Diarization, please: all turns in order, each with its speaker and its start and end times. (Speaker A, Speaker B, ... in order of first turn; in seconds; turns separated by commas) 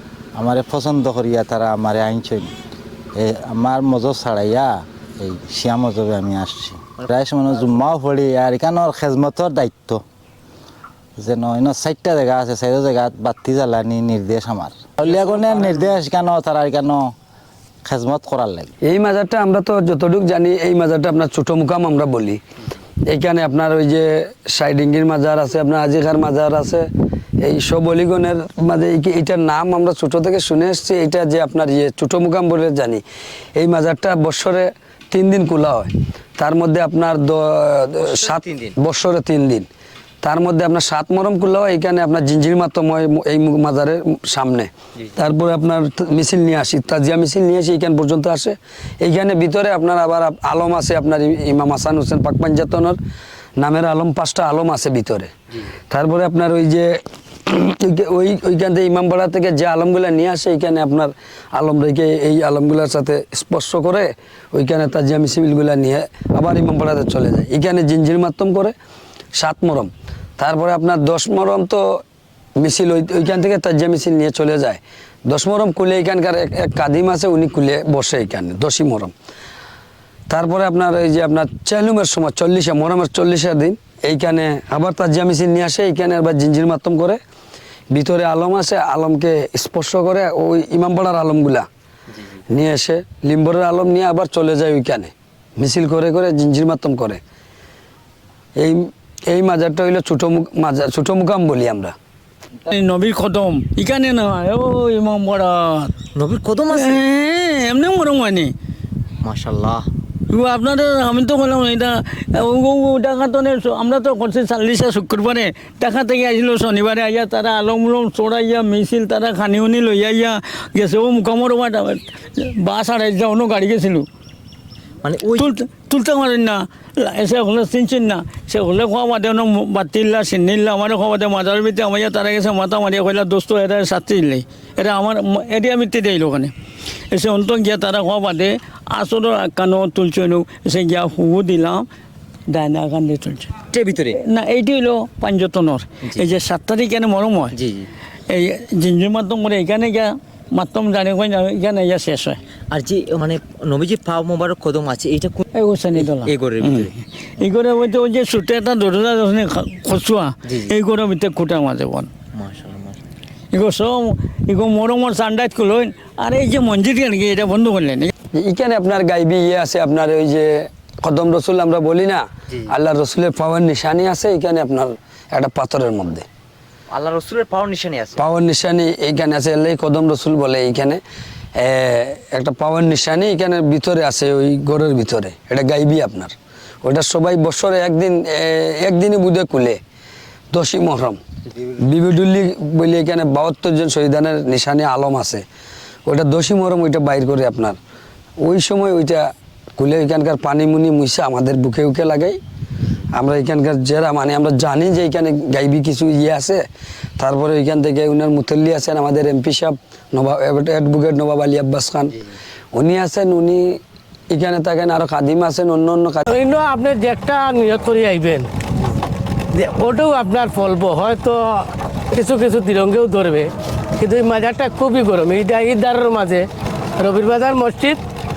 Speaker A: 0.3-2.5, Speaker A: 3.1-10.0, Speaker A: 11.2-17.1, Speaker B: 15.1-15.9, Speaker A: 17.8-18.7, Speaker C: 18.8-22.4, Speaker C: 23.1-26.9, Speaker C: 27.4-33.0, Speaker C: 33.5-39.7, Speaker B: 38.0-38.7, Speaker C: 40.2-53.0, Speaker C: 53.6-55.3, Speaker C: 55.9-56.9, Speaker C: 57.5-68.7, Speaker C: 69.3-71.8, Speaker C: 72.6-79.1, Speaker C: 80.3-87.2, Speaker C: 87.9-91.7, Speaker C: 92.5-97.2, Speaker C: 98.6-101.9, Speaker D: 102.7-105.9, Speaker B: 106.1-107.0, Speaker D: 106.7-108.5, Speaker B: 109.2-109.9, Speaker D: 110.3-124.1, Speaker B: 125.0-125.5, Speaker D: 125.4-136.5, Speaker D: 137.1-141.8, Speaker D: 142.5-143.5, Speaker B: 143.7-144.2, Speaker D: 144.2-147.5, Speaker B: 147.5-147.9, Speaker D: 148.3-152.4, Speaker B: 152.7-155.4, Speaker D: 155.5-162.1, Speaker B: 156.0-156.9, Speaker B: 160.4-160.7, Speaker B: 162.3-163.0, Speaker D: 163.5-168.1, Speaker C: 168.3-176.2, Speaker B: 176.9-178.2, Speaker C: 178.2-181.0, Speaker C: 181.6-189.8, Speaker C: 190.5-191.2, Speaker C: 191.8-195.4, Speaker C: 196.1-197.8, Speaker C: 198.4-199.2, Speaker C: 199.8-202.4, Speaker C: 203.1-206.6, Speaker C: 207.2-212.2, Speaker C: 212.7-213.8, Speaker C: 214.3-216.2, Speaker E: 216.2-218.5, Speaker E: 219.5-226.5, Speaker E: 227.0-228.0